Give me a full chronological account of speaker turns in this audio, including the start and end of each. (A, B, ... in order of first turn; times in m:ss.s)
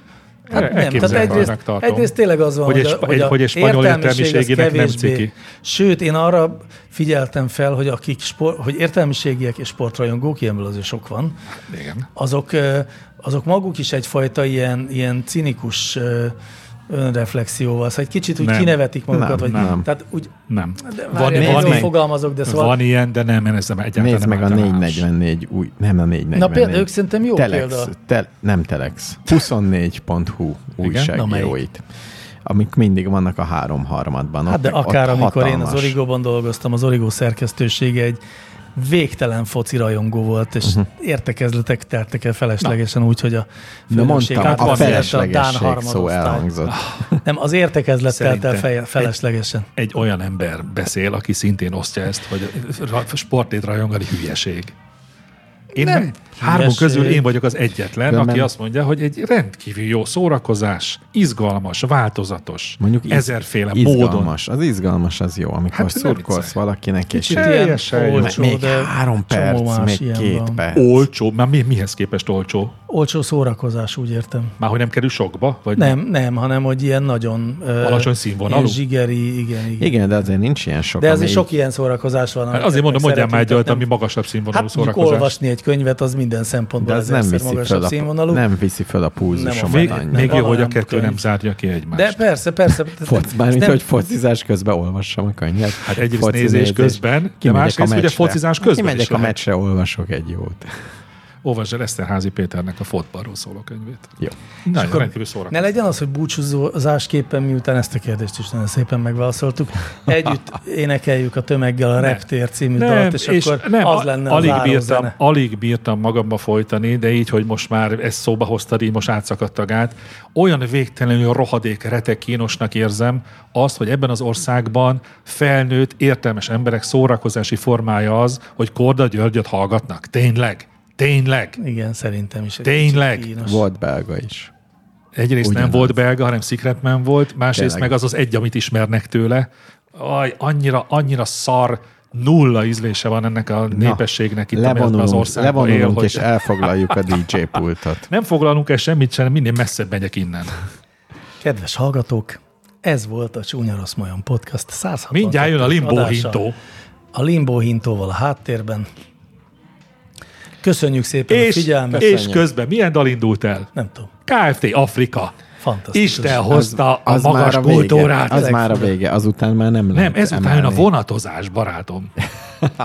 0:00.5-0:02.1 A
0:00.5-0:11.4 B
0:02.7-0:05.3 A
0:11.7-0:12.1 A
0:12.2-0:16.4 B
0:16.9-0:22.8 B
0:18.4-0:18.8 A
0:19.1-0:19.9 C
0:19.4-0:19.8 A
0:20.5-0:25.1 A
0:21.3-0:22.0 C
0:24.0-0:31.8 C
0:26.4-0:27.9 B
0:30.8-0:31.1 A
0:31.1-0:31.6 B
0:32.4-0:36.0 C
0:34.5-0:38.2 B
0:38.8-0:46.5 B
0:43.9-0:47.2 C
0:44.4-0:45.2 A
0:46.7-0:47.0 A
0:47.2-0:49.7 B
0:48.1-0:49.1 A
0:49.8-0:54.7 A
0:55.7-0:57.2 B
0:55.8-1:04.3 A
0:58.1-0:58.5 C
1:02.8-1:11.1 C
1:05.7-1:06.6 A
1:07.1-1:08.4 A
1:07.3-1:10.6 B
1:10.7-1:12.7 A
1:12.9-1:14.6 B
1:14.6-1:16.0 A
1:15.8-1:19.9 B
1:17.8-1:18.8 A
1:19.8-1:21.5 C
1:21.0-1:23.9 B
1:22.5-1:25.3 A
1:24.5-1:28.4 B
1:26.8-1:30.4 C
1:29.3-1:31.2 B
1:29.7-1:32.2 A
1:31.9-1:33.8 B
1:33.0-1:40.8 C
1:35.9-1:39.4 A
1:41.4-1:44.1 A
1:44.7-1:45.8 A
1:44.7-1:55.2 B
1:52.0-1:52.2 A
1:52.8-2:11.6 A
2:11.6-2:13.6 B
2:12.6-2:13.3 A
2:13.4-2:14.5 C
2:15.2-2:26.3 A
2:15.4-2:16.0 C
2:17.5-2:17.9 C
2:23.7-2:28.1 C
2:28.1-2:30.6 A
2:31.4-2:36.4 B
2:35.1-2:36.6 A
2:37.1-2:38.9 B
2:40.6-2:42.1 B
2:41.3-2:43.7 A
2:42.0-2:42.5 C
2:43.8-2:44.1 B
2:44.3-2:45.3 A
2:45.6-2:46.5 B
2:45.9-2:48.9 A
2:46.5-2:50.9 C
2:48.3-2:48.9 B
2:50.0-2:52.1 A